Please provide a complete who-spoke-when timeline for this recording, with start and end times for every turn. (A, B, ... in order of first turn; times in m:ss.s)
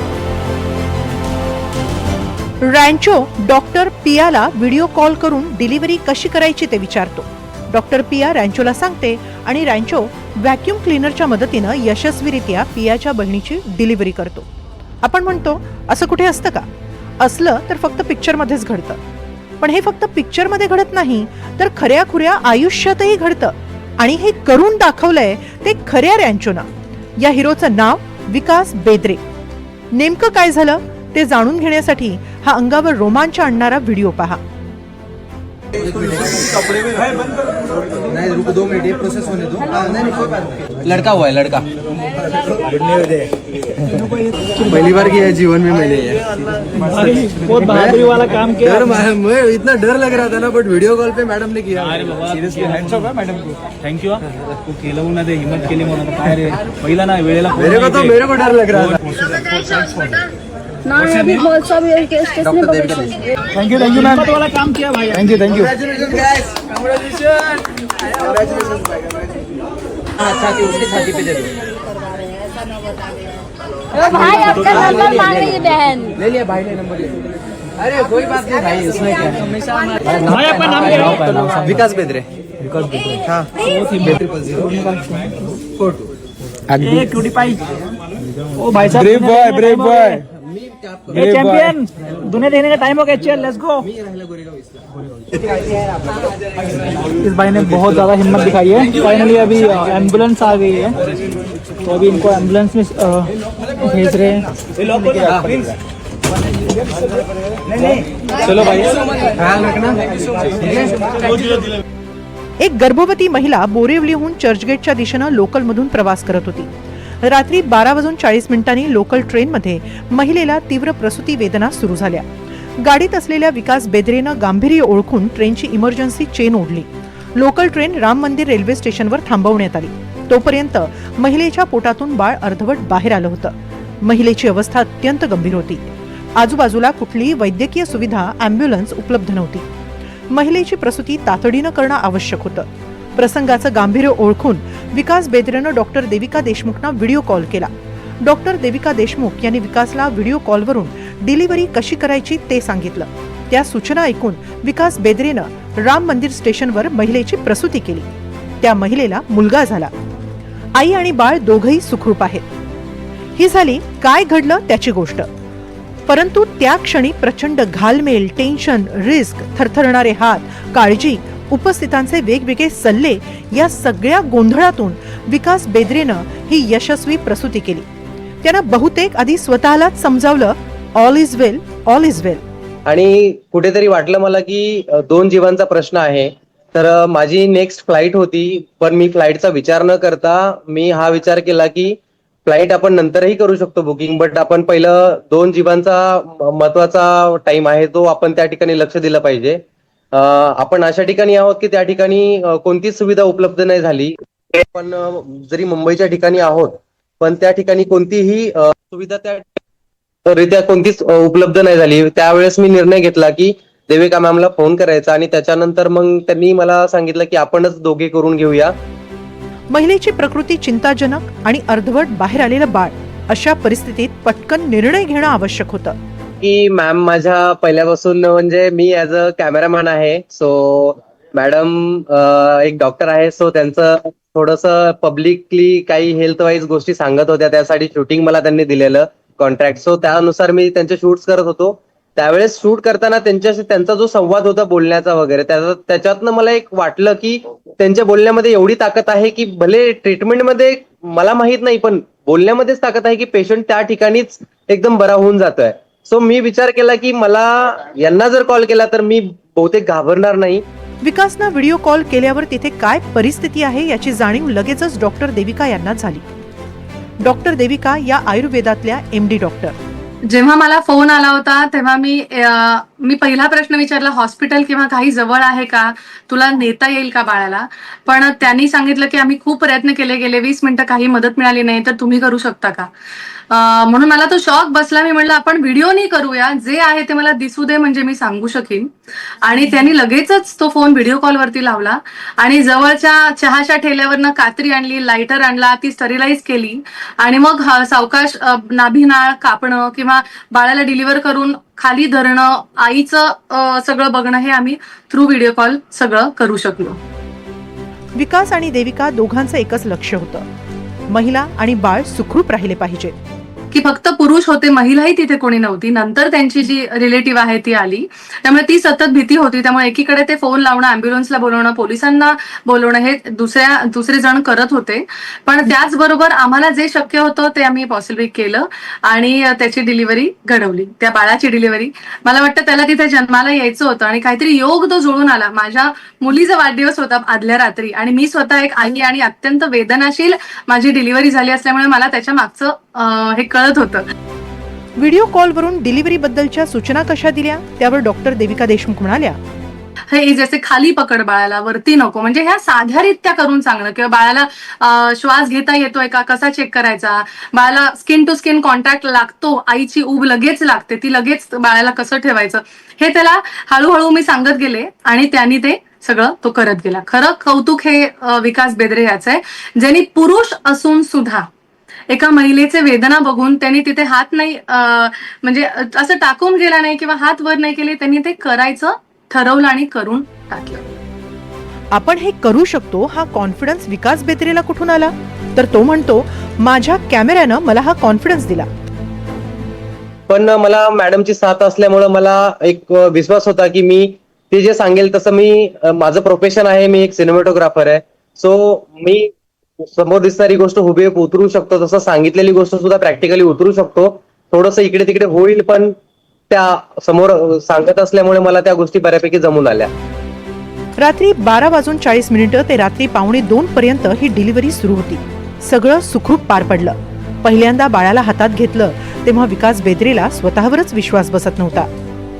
0:02.6-0:14.5 A
0:15.0-0:16.7 A
0:17.2-0:19.0 A
0:19.6-0:26.7 A
0:27.2-0:29.2 A
0:29.9-0:34.4 A
0:38.2-0:40.4 B
0:40.8-0:41.7 C
0:44.7-0:45.3 D
0:45.1-0:46.1 B
0:45.4-0:46.2 C
0:46.7-0:49.0 D
0:49.0-0:51.5 C
0:49.2-0:51.9 B
0:51.9-0:58.2 D
0:57.7-0:58.9 B
0:58.7-0:59.0 D
1:00.8-1:03.2 E
1:03.5-1:05.8 D
1:05.9-1:06.3 B
1:10.6-1:11.5 B
1:13.9-1:16.2 E
1:16.2-1:16.8 B
1:18.1-1:19.4 B
1:20.2-1:21.6 D
1:21.5-1:22.2 C
1:22.8-1:25.6 D
1:26.7-1:27.7 D
1:28.5-1:30.2 D
1:31.1-1:33.9 D
1:37.1-1:41.0 D
1:41.8-1:45.6 D
1:48.4-1:48.9 D
1:52.6-1:56.7 A
1:57.2-2:02.3 A
2:02.8-2:19.6 A
2:20.3-2:27.7 A
2:28.2-2:39.9 A
2:40.8-2:42.4 A
2:43.4-2:45.3 A
2:46.1-2:57.8 A
2:58.4-3:02.4 A
3:02.9-3:29.5 C
3:30.2-3:38.7 C
3:39.7-3:45.9 A
3:46.4-4:20.6 C
4:21.0-4:26.3 A
4:27.2-4:29.8 A
4:30.3-4:42.9 F
4:43.5-4:48.9 F
4:49.4-5:07.0 F
5:08.2-5:10.5 A
5:11.1-5:13.1 A
5:13.7-5:44.1 F
5:45.0-5:49.4 A
5:50.1-6:11.5 F
6:12.1-6:20.9 F
6:21.9-6:28.7 A
6:30.3-6:46.0 C
6:46.5-6:49.9 C
6:51.0-7:01.9 A